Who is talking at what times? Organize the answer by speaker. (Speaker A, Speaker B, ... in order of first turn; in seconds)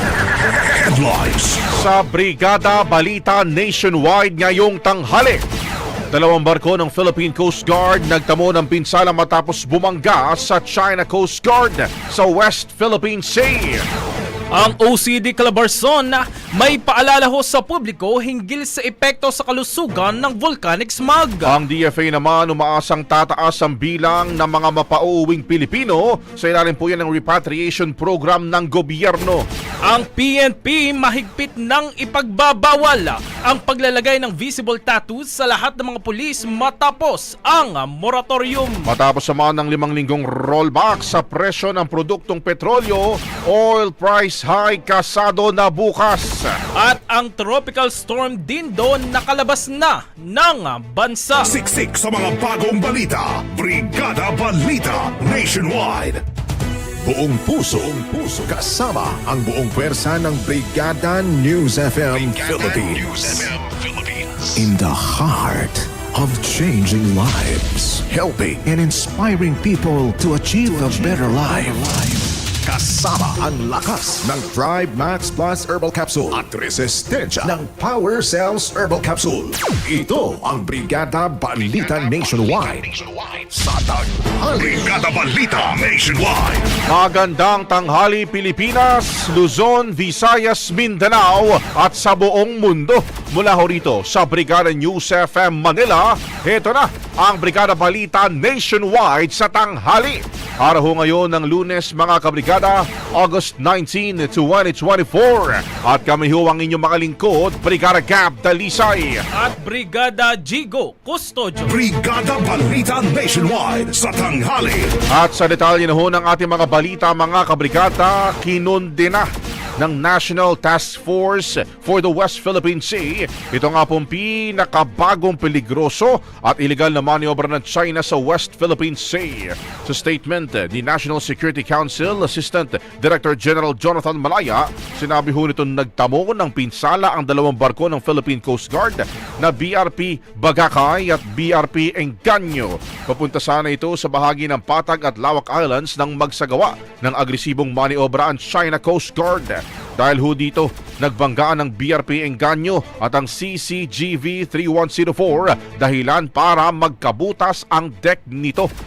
Speaker A: 0.4-1.6, 51.4-56.2, 84.6-86.8, 111.7-115.0
Speaker B: 1.7-5.4, 6.1-13.8, 21.4-29.4, 38.9-46.5, 86.9-109.2, 115.1-158.7
Speaker C: 14.5-21.5, 29.9-38.9, 46.8-51.5, 109.3-111.7
Speaker D: 57.0-84.8